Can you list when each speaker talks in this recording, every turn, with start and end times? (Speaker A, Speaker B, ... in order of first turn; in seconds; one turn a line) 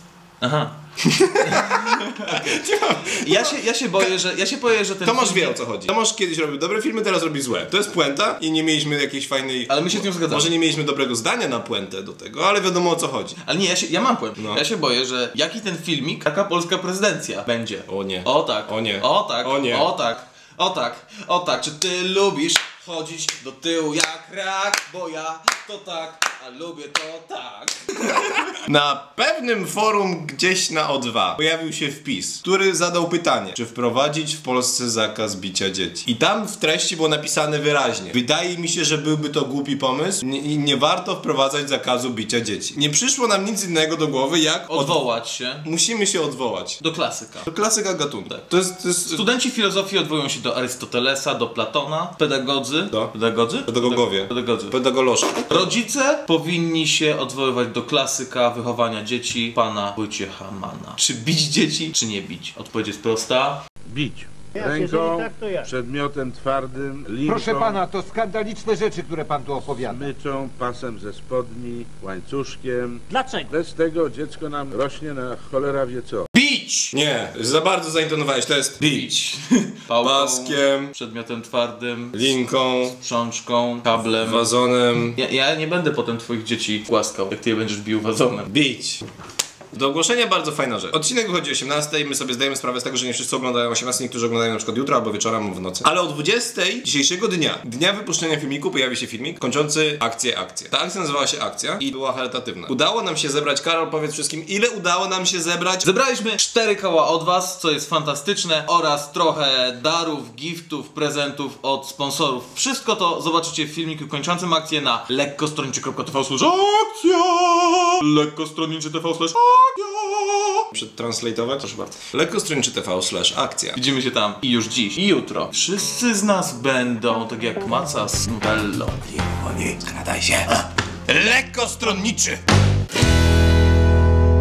Speaker A: 0.4-0.7
Speaker B: 1.0-4.1
Speaker A: 1.4-2.6
Speaker A: 3.2-5.6
Speaker B: 5.0-13.3
Speaker A: 9.7-10.5
Speaker A: 13.4-28.6
Speaker B: 17.9-19.9
Speaker B: 28.5-45.0
Speaker A: 44.7-45.7
Speaker B: 45.6-46.8
Speaker A: 46.8-47.5
Speaker B: 47.4-49.2
Speaker A: 49.0-54.8
Speaker B: 53.6-55.7
Speaker A: 55.4-63.6
Speaker C: 63.9-67.8
Speaker D: 64.5-65.7
Speaker D: 67.3-70.1
Speaker C: 69.8-76.3
Speaker A: 76.3-76.9
Speaker B: 76.9-79.2
Speaker A: 78.8-88.5
Speaker B: 80.0-80.9
Speaker B: 82.1-83.0
Speaker B: 84.2-85.2
Speaker B: 88.5-89.0
Speaker B: 89.7-105.8
Speaker A: 105.8-120.7
Speaker B: 120.7-123.8
Speaker A: 123.7-129.4
Speaker B: 129.2-132.4